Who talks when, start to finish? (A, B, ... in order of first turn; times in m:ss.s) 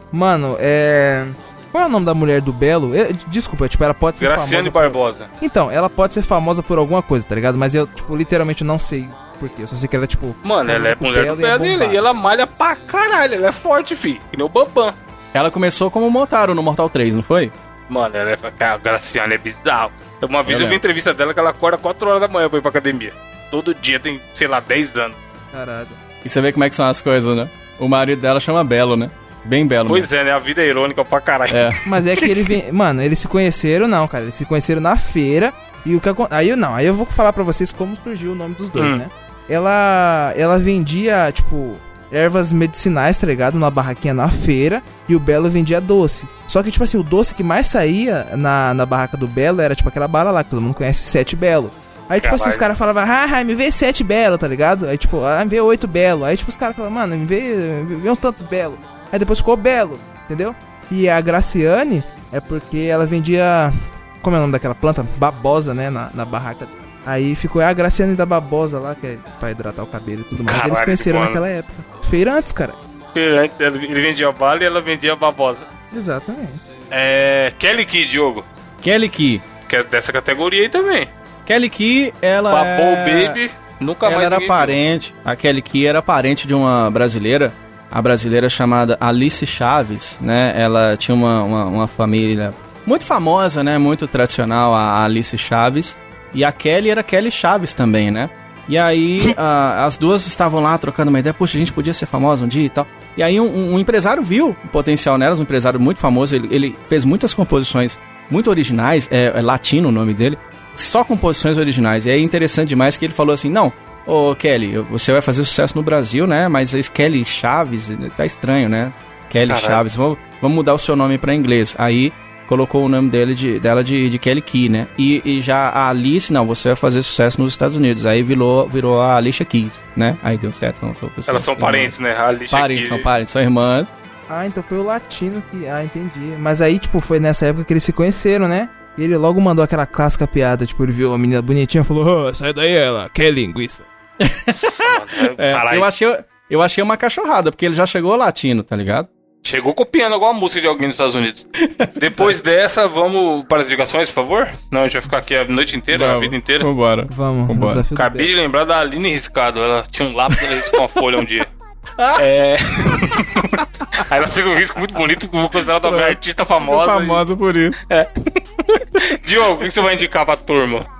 0:00.1-0:12.0 A
0:04.2-0:05.3 B
0:10.4-0:15.0 B
0:15.3-0:17.5 C
0:17.9-0:25.2 B
0:20.4-0:20.8 C
0:25.5-0:26.0 A
0:26.2-0:30.1 C
0:29.9-0:31.8 B
0:31.5-0:32.5 C
0:31.8-1:12.8 A
0:38.8-0:39.0 B
0:52.2-0:52.6 B
1:10.4-1:11.4 B
1:13.1-1:15.7 B
1:15.9-1:16.6 A
1:16.9-1:18.4 B
1:18.8-1:19.4 C
1:19.7-1:21.1 B
1:21.4-1:23.4 C
1:22.5-1:24.8 B
1:24.0-2:11.9 C
1:59.5-1:59.8 B
2:11.3-2:13.1 B
2:12.5-2:13.9 C
2:14.3-2:23.8 A
2:24.2-2:29.1 C
2:24.5-2:25.9 B
2:29.4-2:36.7 B
2:31.6-2:32.4 C
2:35.9-2:37.8 C
2:37.1-2:38.3 A
2:37.9-2:41.5 B
2:40.5-2:40.7 C
2:42.0-2:42.2 C
2:42.2-2:47.2 B
2:42.9-2:43.4 C
2:45.7-2:47.8 C
2:47.9-2:50.9 B